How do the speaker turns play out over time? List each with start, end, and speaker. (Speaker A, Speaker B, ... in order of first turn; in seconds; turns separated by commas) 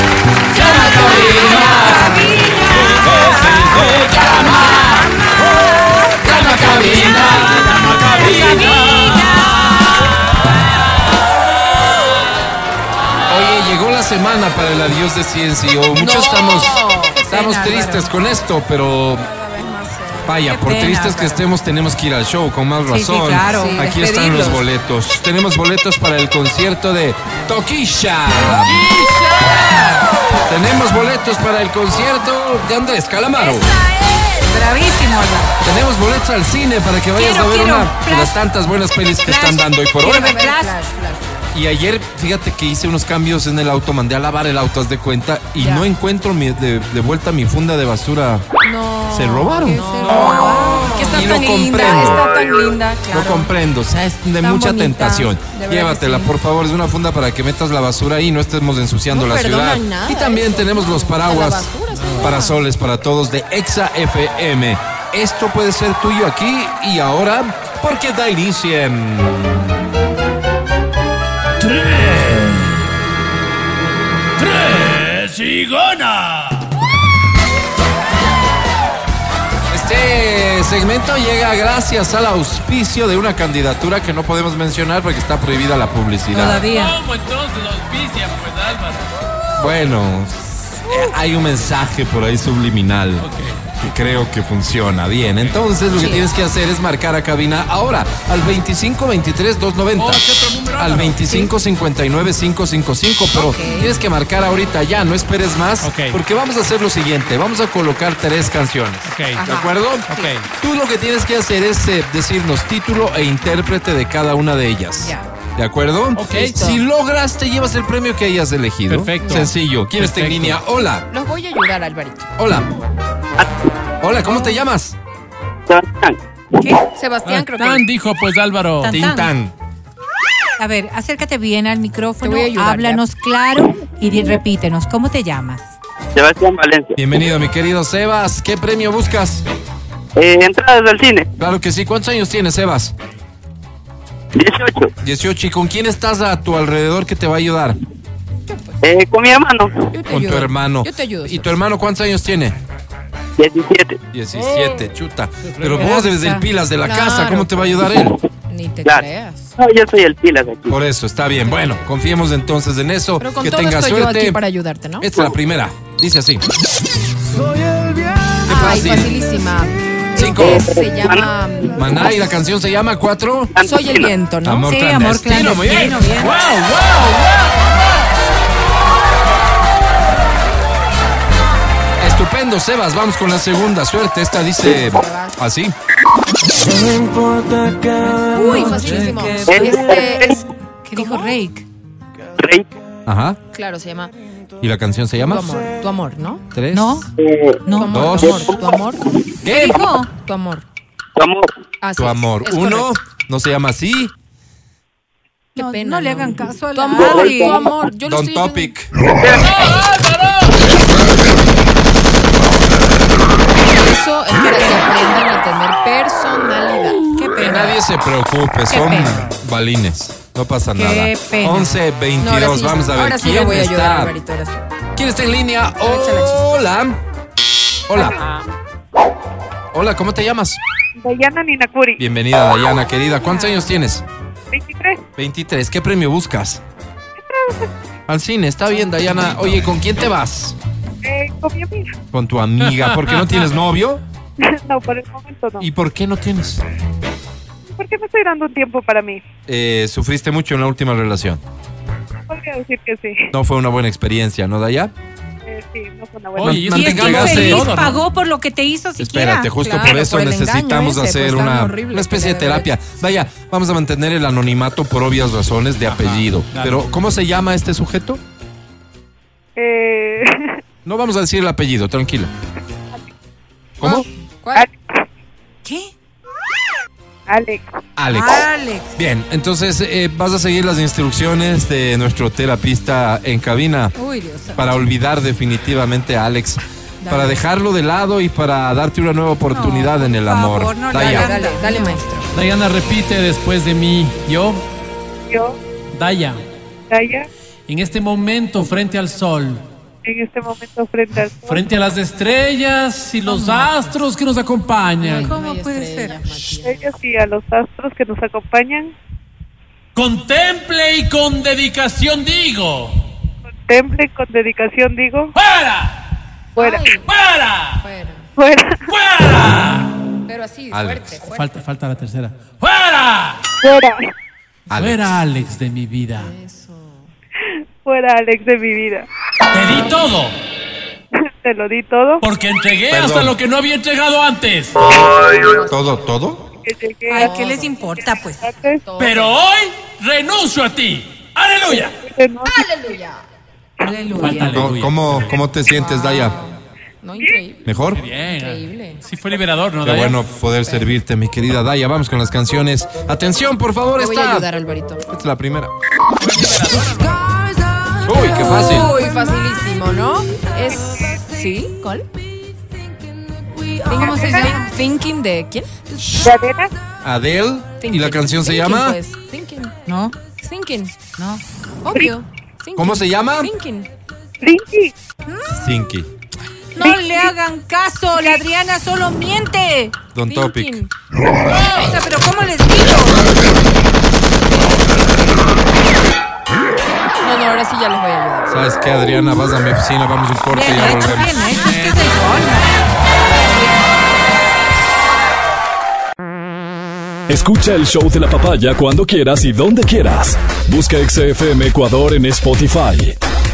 Speaker A: 0.5-7.1, Speaker B: 0.5-2.1, Speaker C: 0.5-2.5, Speaker B: 2.7-5.1, Speaker C: 4.3-4.7, Speaker B: 6.2-9.7, Speaker C: 6.2-7.5, Speaker D: 6.2-7.5, Speaker A: 8.2-9.7, Speaker D: 13.3-19.3, Speaker C: 15.9-18.1, Speaker C: 19.2-20.5, Speaker D: 20.2-28.9, Speaker A: 20.5-21.4, Speaker A: 22.9-23.9, Speaker C: 23.5-24.6, Speaker B: 28.6-29.9, Speaker D: 30.5-33.7, Speaker A: 34.3-35.5, Speaker D: 35.6-40.3, Speaker A: 37.1-38.4, Speaker A: 39.2-40.7, Speaker C: 40.0-41.5, Speaker D: 41.5-48.4, Speaker C: 45.6-45.9, Speaker C: 48.6-56.3, Speaker D: 49.1-49.8, Speaker A: 49.7-51.4, Speaker D: 51.1-52.2, Speaker D: 53.1-69.6, Speaker C: 59.1-62.6, Speaker B: 61.9-62.4, Speaker B: 71.6-72.8, Speaker B: 74.4-76.7, Speaker D: 79.7-86.6, Speaker A: 86.3-87.0, Speaker B: 86.6-89.0, Speaker D: 89.6-100.2, Speaker B: 93.2-93.6, Speaker B: 95.2-95.6, Speaker B: 100.0-101.3, Speaker D: 100.8-121.0, Speaker A: 103.3-103.9, Speaker B: 105.8-106.2, Speaker B: 109.0-109.4, Speaker C: 109.4-109.7, Speaker B: 110.1-110.5, Speaker B: 116.2-116.6, Speaker C: 116.3-116.8, Speaker B: 118.9-120.6, Speaker C: 121.1-122.3, Speaker D: 122.4-122.7, Speaker D: 124.0-125.0, Speaker E: 125.7-126.2, Speaker A: 126.6-126.8, Speaker C: 126.9-127.8, Speaker B: 127.2-128.9, Speaker A: 128.8-129.3, Speaker D: 128.9-129.5, Speaker A: 130.6-135.7, Speaker C: 132.2-133.0, Speaker E: 136.1-136.9, Speaker D: 136.9-139.4, Speaker E: 140.2-141.3, Speaker D: 141.4-142.9, Speaker E: 144.3-144.9, Speaker D: 145.0-147.8, Speaker C: 148.4-148.8, Speaker E: 148.8-149.8, Speaker C: 149.9-151.6, Speaker D: 150.1-152.6, Speaker E: 153.4-154.0, Speaker D: 154.1-158.2, Speaker A: 155.8-156.4, Speaker C: 156.8-159.5, Speaker E: 159.6-160.7, Speaker D: 160.7-164.4, Speaker C: 161.4-161.8, Speaker C: 163.2-165.1, Speaker D: 165.0-166.4, Speaker D: 168.4-169.3, Speaker C: 168.5-172.3, Speaker D: 170.2-170.6, Speaker E: 170.2-171.2, Speaker D: 171.7-173.5, Speaker E: 173.5-174.1, Speaker C: 173.6-174.7, Speaker D: 174.4-176.0, Speaker A: 174.6-176.3, Speaker B: 175.3-177.7, Speaker D: 182.0-185.7, Speaker C: 184.7-185.4, Speaker A: 188.1-189.8, Speaker C: 188.3-191.4, Speaker E: 189.5-190.4, Speaker A: 190.8-191.6, Speaker E: 192.4-192.7, Speaker D: 193.1-193.4, Speaker C: 193.5-194.1, Speaker D: 194.6-195.5, Speaker C: 195.2-196.4, Speaker D: 196.5-197.0, Speaker A: 196.7-197.1, Speaker E: 197.2-197.6, Speaker A: 197.7-198.5, Speaker C: 197.7-199.0, Speaker D: 197.9-198.4, Speaker E: 198.2-198.7, Speaker D: 199.4-199.8, Speaker A: 199.4-200.1, Speaker C: 200.2-200.7, Speaker E: 201.2-201.5, Speaker C: 201.8-202.9, Speaker D: 202.0-204.1, Speaker A: 205.5-207.7, Speaker C: 205.6-208.7, Speaker E: 206.9-207.6, Speaker D: 208.0-208.9, Speaker E: 209.2-209.6, Speaker B: 209.3-210.6, Speaker C: 213.6-217.1, Speaker A: 214.4-214.8, Speaker A: 217.1-217.8, Speaker D: 217.4-224.1, Speaker A: 218.7-219.2, Speaker A: 220.7-221.8, Speaker C: 222.2-224.6, Speaker D: 224.9-227.0, Speaker C: 225.8-226.7, Speaker D: 227.9-228.2, Speaker C: 227.9-228.3, Speaker D: 229.7-230.6, Speaker F: 231.0-232.0, Speaker D: 232.0-234.0, Speaker A: 233.2-233.7, Speaker F: 234.5-235.0, Speaker D: 235.2-236.6, Speaker F: 237.3-237.7, Speaker D: 238.1-240.6, Speaker F: 241.0-241.9, Speaker D: 242.1-244.0, Speaker B: 242.6-243.5, Speaker F: 244.4-245.7, Speaker D: 245.6-246.6, Speaker F: 247.8-249.2, Speaker D: 249.5-251.4, Speaker F: 252.3-253.3, Speaker D: 253.3-254.9, Speaker F: 255.4-256.6, Speaker B: 256.3-258.0, Speaker D: 256.4-257.7, Speaker A: 256.6-259.5, Speaker D: 259.0-268.2, Speaker C: 259.6-262.7, Speaker B: 265.9-266.8, Speaker F: 269.6-270.6, Speaker D: 270.8-272.3, Speaker D: 273.8-274.0, Speaker C: 273.8-274.7, Speaker F: 274.5-275.0, Speaker A: 275.6-275.9, Speaker F: 277.3-277.6, Speaker D: 278.0-283.9, Speaker A: 278.1-278.9, Speaker A: 283.9-284.7, Speaker D: 284.6-291.3, Speaker A: 287.1-287.4, Speaker A: 289.5-292.0, Speaker C: 290.9-292.3, Speaker B: 292.3-294.6, Speaker F: 295.3-295.6, Speaker B: 295.9-296.4, Speaker F: 296.9-297.3, Speaker B: 297.7-299.6, Speaker F: 300.0-301.6, Speaker B: 301.4-305.4, Speaker A: 303.2-303.7, Speaker C: 305.0-306.9, Speaker A: 305.2-306.3, Speaker F: 306.6-308.9, Speaker B: 309.9-313.0, Speaker F: 313.7-315.3, Speaker B: 315.4-315.9, Speaker C: 316.5-317.1, Speaker F: 316.6-316.8, Speaker B: 316.9-317.8, Speaker C: 317.8-318.3, Speaker F: 318.4-318.9, Speaker B: 318.9-319.9, Speaker C: 320.2-321.6, Speaker D: 320.7-321.1, Speaker B: 321.3-323.4, Speaker F: 323.6-324.0, Speaker D: 324.7-325.2, Speaker B: 324.7-326.3, Speaker C: 326.1-327.1, Speaker F: 327.8-329.1, Speaker B: 329.5-330.4, Speaker F: 331.4-332.2, Speaker B: 332.2-334.8, Speaker D: 332.9-333.3, Speaker C: 334.9-335.9, Speaker D: 335.7-336.4, Speaker F: 336.6-337.3, Speaker A: 337.1-338.5, Speaker C: 337.1-337.8, Speaker F: 338.4-338.8, Speaker C: 338.8-339.4, Speaker B: 339.0-341.9, Speaker F: 342.0-342.6, Speaker C: 342.5-343.2, Speaker A: 343.8-344.6, Speaker B: 344.2-345.3, Speaker D: 344.4-346.4, Speaker C: 345.7-349.0, Speaker D: 347.6-348.0, Speaker B: 347.9-350.2, Speaker D: 349.8-354.5, Speaker C: 350.6-350.9, Speaker C: 354.0-355.0, Speaker D: 355.1-355.7, Speaker B: 356.3-357.1, Speaker D: 358.0-358.9, Speaker C: 358.1-362.1, Speaker C: 363.9-366.1, Speaker A: 363.9-364.7, Speaker F: 364.0-364.5, Speaker D: 366.0-366.3, Speaker F: 366.2-366.7, Speaker D: 367.0-369.0, Speaker C: 367.8-369.7, Speaker A: 369.9-370.2, Speaker C: 370.4-370.9, Speaker A: 371.2-371.4, Speaker C: 371.8-373.9, Speaker D: 372.8-373.5, Speaker F: 374.4-374.9, Speaker D: 375.5-376.1, Speaker A: 376.8-379.9, Speaker F: 376.8-377.3, Speaker D: 380.1-380.8, Speaker C: 380.2-380.9, Speaker A: 381.5-383.3, Speaker C: 384.4-385.7, Speaker C: 387.2-388.6, Speaker D: 388.5-391.4, Speaker A: 390.5-392.7, Speaker G: 397.3-403.2